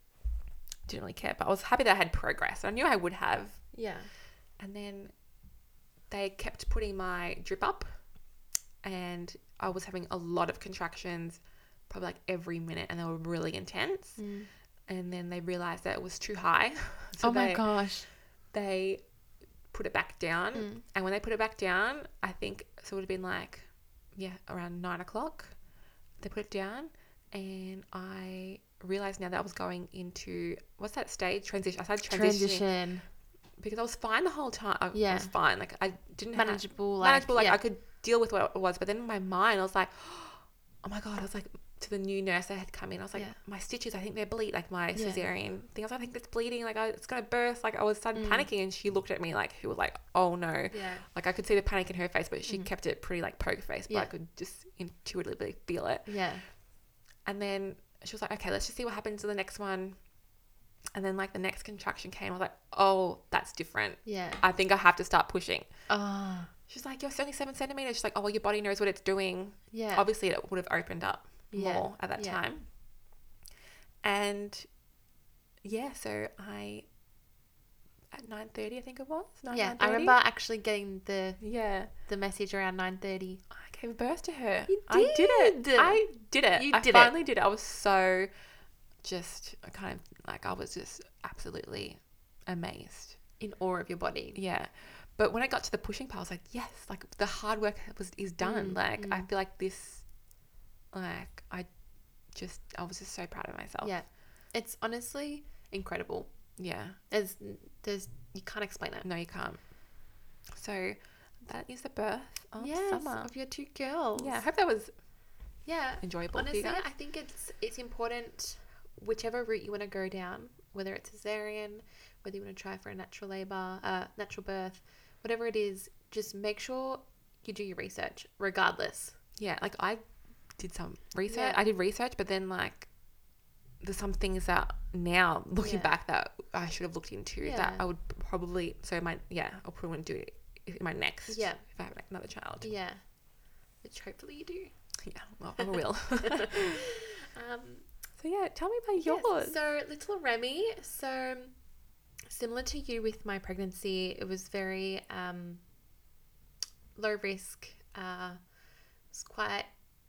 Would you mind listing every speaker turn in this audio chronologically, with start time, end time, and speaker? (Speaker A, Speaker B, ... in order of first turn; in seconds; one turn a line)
Speaker A: 0.9-3.7
Speaker B: 3.7-4.1
Speaker A: 4.6-5.1
Speaker A: 6.1-8.0
Speaker A: 8.8-14.2
Speaker B: 14.2-14.5
Speaker A: 14.9-17.8
Speaker B: 17.2-18.1
Speaker A: 18.5-19.0
Speaker A: 19.7-25.6
Speaker B: 20.5-20.8
Speaker A: 26.2-32.7
Speaker B: 32.1-33.1
Speaker A: 33.6-56.2
Speaker B: 34.9-35.3
Speaker B: 36.3-37.6
Speaker B: 44.9-45.2
Speaker B: 48.1-48.5
Speaker B: 50.7-51.0
Speaker B: 56.0-56.5
Speaker A: 57.2-60.0
Speaker A: 60.9-65.7
Speaker B: 64.0-64.4
Speaker B: 65.9-66.5
Speaker A: 66.7-72.7
Speaker B: 69.7-70.0
Speaker B: 71.5-72.4
Speaker A: 74.0-74.7
Speaker A: 75.6-76.8
Speaker A: 78.1-80.1
Speaker B: 79.5-83.4
Speaker A: 81.4-81.9
Speaker A: 83.5-88.3
Speaker B: 84.7-87.1
Speaker A: 89.0-93.2
Speaker B: 93.4-94.4
Speaker A: 94.3-100.1
Speaker B: 98.4-99.3
Speaker A: 100.9-101.7
Speaker A: 102.3-103.9
Speaker B: 103.8-106.3
Speaker A: 106.6-107.0
Speaker B: 107.1-109.1
Speaker A: 109.0-109.7
Speaker A: 110.5-113.3
Speaker B: 112.6-114.4
Speaker A: 114.2-114.9
Speaker B: 115.6-129.2
Speaker A: 116.0-116.8
Speaker A: 129.4-132.9
Speaker B: 131.3-131.6
Speaker A: 133.8-142.7
Speaker B: 135.6-135.9
Speaker B: 137.4-137.8
Speaker B: 141.3-141.6
Speaker B: 142.6-143.0
Speaker B: 143.8-144.7
Speaker A: 145.0-146.9
Speaker B: 146.2-147.9
Speaker A: 148.2-149.6
Speaker B: 149.0-151.5
Speaker B: 152.2-155.6
Speaker B: 156.9-158.4
Speaker B: 159.1-159.7